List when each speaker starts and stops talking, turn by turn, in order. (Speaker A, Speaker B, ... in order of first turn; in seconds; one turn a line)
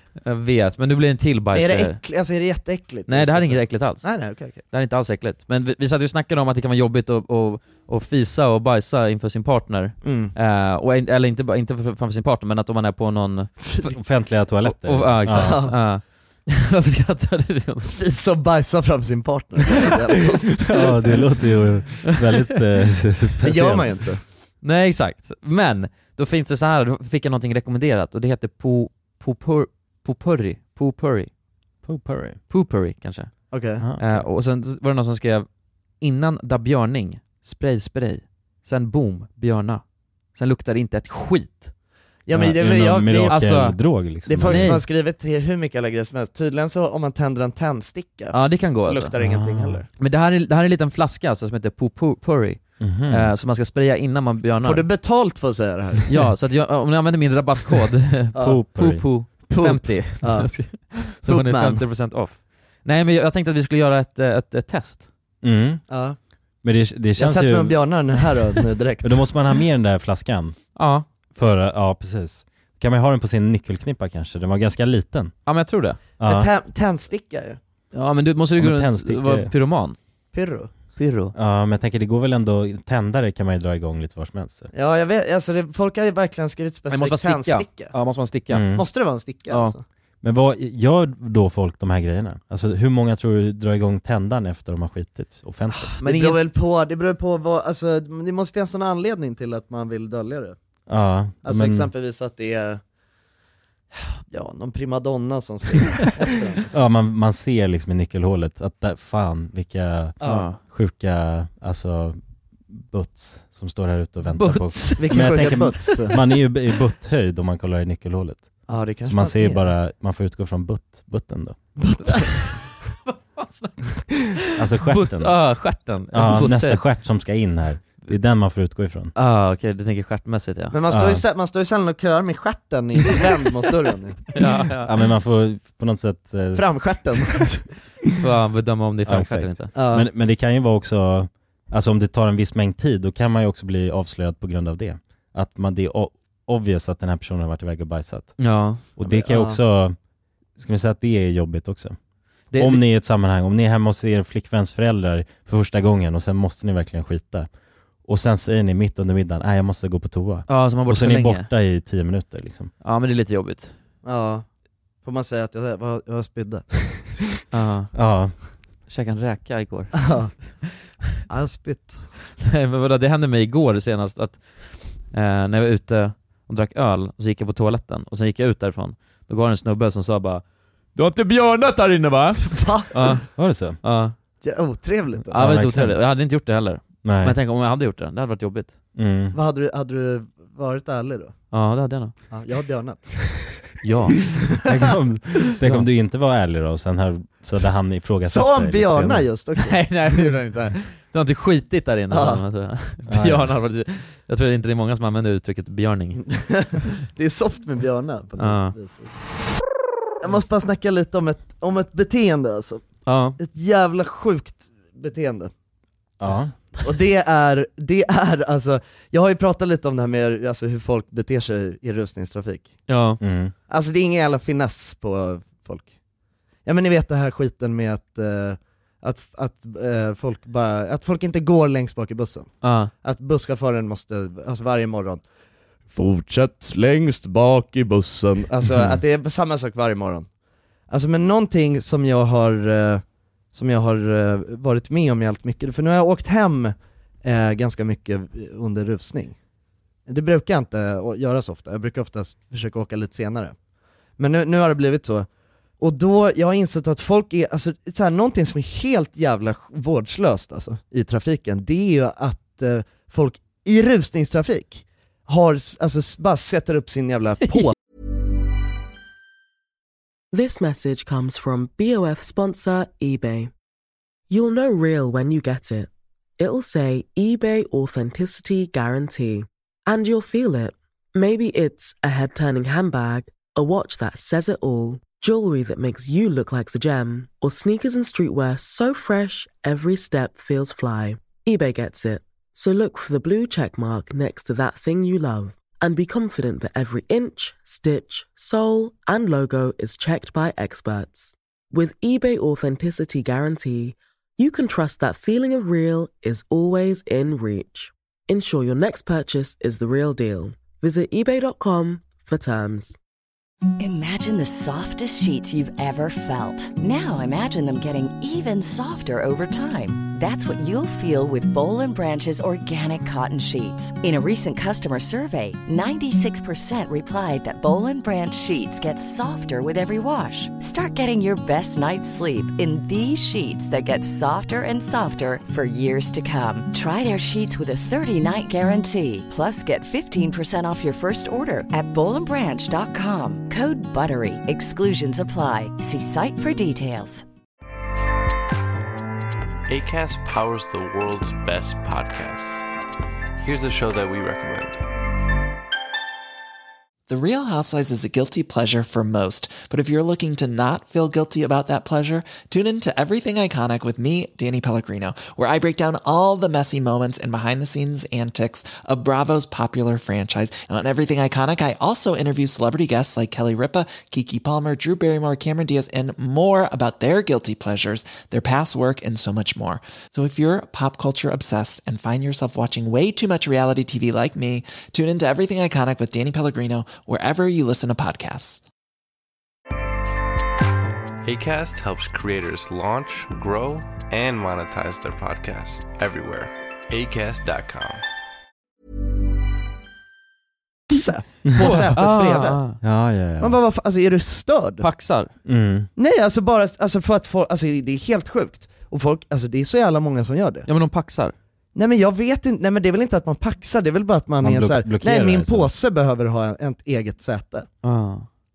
Speaker A: 0.2-2.0
Speaker B: 1.5-4.6
Speaker A: 3.1-14.0
Speaker B: 10.0-10.3
Speaker C: 13.8-15.7
Speaker A: 14.6-17.9
Speaker B: 15.3-15.8
Speaker B: 17.9-20.9
Speaker C: 20.6-24.0
Speaker B: 23.4-24.2
Speaker A: 24.6-31.3
Speaker C: 31.8-32.4
Speaker A: 32.5-35.5
Speaker B: 33.5-33.9
Speaker C: 33.8-34.3
Speaker A: 36.0-41.7
Speaker B: 42.2-43.6
Speaker C: 42.3-44.8
Speaker A: 43.3-44.8
Speaker B: 44.2-49.9
Speaker A: 48.3-49.1
Speaker C: 49.2-49.8
Speaker A: 50.0-54.9
Speaker C: 52.8-53.3
Speaker B: 54.6-56.1
Speaker A: 56.1-65.1
Speaker B: 58.3-58.6
Speaker C: 58.3-59.0
Speaker B: 59.3-61.8
Speaker C: 65.4-65.8
Speaker B: 65.9-66.2
Speaker C: 66.6-68.0
Speaker B: 67.2-69.4
Speaker C: 69.0-70.6
Speaker A: 70.8-71.0
Speaker C: 71.3-75.3
Speaker A: 75.5-76.0
Speaker C: 76.2-76.5
Speaker B: 76.2-77.6
Speaker A: 77.9-80.0
Speaker C: 78.6-79.5
Speaker B: 80.3-80.7
Speaker A: 80.9-81.3
Speaker C: 81.3-84.7
Speaker B: 84.7-87.9
Speaker A: 86.9-88.7
Speaker C: 88.5-88.8
Speaker B: 88.7-89.8
Speaker A: 89.5-89.7
Speaker C: 90.2-95.9
Speaker B: 95.8-100.6
Speaker A: 96.0-96.4
Speaker C: 100.9-101.9
Speaker B: 101.4-102.8
Speaker B: 103.9-106.7
Speaker C: 106.7-112.2
Speaker B: 110.2-110.5
Speaker A: 110.2-110.6
Speaker C: 112.7-121.7
Speaker A: 114.3-115.9
Speaker B: 115.0-116.2
Speaker B: 118.7-119.7
Speaker B: 121.8-122.4
Speaker A: 122.0-122.5
Speaker A: 123.0-126.8
Speaker C: 124.5-125.4
Speaker C: 126.1-129.1
Speaker A: 129.1-130.7
Speaker B: 130.7-134.2
Speaker C: 130.9-131.2
Speaker A: 134.3-134.9
Speaker C: 134.8-136.9
Speaker B: 136.5-137.7
Speaker A: 138.2-139.7
Speaker C: 139.1-149.9
Speaker B: 139.7-140.1
Speaker A: 148.4-148.9
Speaker B: 149.0-149.6
Speaker C: 150.6-152.0
Speaker A: 152.5-152.8
Speaker C: 152.5-157.5
Speaker C: 158.0-162.7
Speaker A: 160.5-161.5
Speaker A: 162.8-163.7
Speaker B: 164.0-164.4
Speaker B: 165.0-167.2
Speaker A: 167.5-167.9
Speaker C: 167.9-168.4
Speaker A: 168.9-170.5
Speaker B: 170.0-170.6
Speaker B: 171.2-172.1
Speaker A: 172.4-180.4
Speaker A: 180.9-184.1
Speaker B: 182.4-183.2
Speaker C: 183.3-183.8
Speaker B: 184.4-185.4
Speaker C: 185.3-186.0
Speaker A: 185.3-188.7
Speaker C: 187.0-187.4
Speaker C: 188.9-189.3
Speaker B: 189.3-191.4
Speaker A: 191.5-192.1
Speaker B: 192.3-193.5
Speaker A: 193.8-194.4
Speaker C: 194.6-199.3
Speaker B: 198.2-199.8
Speaker A: 199.6-206.2
Speaker B: 202.1-202.4
Speaker C: 203.1-203.5
Speaker B: 206.2-209.2
Speaker A: 208.4-208.7
Speaker B: 210.2-215.5
Speaker A: 213.1-213.4
Speaker C: 216.2-216.5
Speaker B: 216.8-222.8
Speaker A: 222.9-223.2
Speaker C: 223.2-223.5
Speaker B: 223.7-225.9
Speaker B: 226.6-235.2
Speaker A: 232.6-232.9
Speaker B: 235.9-240.3
Speaker B: 240.9-249.3
Speaker B: 250.1-253.6
Speaker B: 254.2-255.3
Speaker B: 255.8-267.7
Speaker D: 270.3-273.5
Speaker D: 274.3-313.0
Speaker E: 313.8-347.2
Speaker F: 349.7-352.6
Speaker F: 353.4-354.8
Speaker G: 357.1-388.6
Speaker F: 391.2-398.0
Speaker B: 400.9-402.6
Speaker A: 401.6-402.8
Speaker C: 402.8-403.6
Speaker B: 403.4-404.9
Speaker A: 404.8-405.3
Speaker C: 405.4-405.9
Speaker B: 405.9-410.7
Speaker A: 410.7-411.3
Speaker B: 411.7-417.7
Speaker C: 414.4-415.7
Speaker A: 417.8-418.3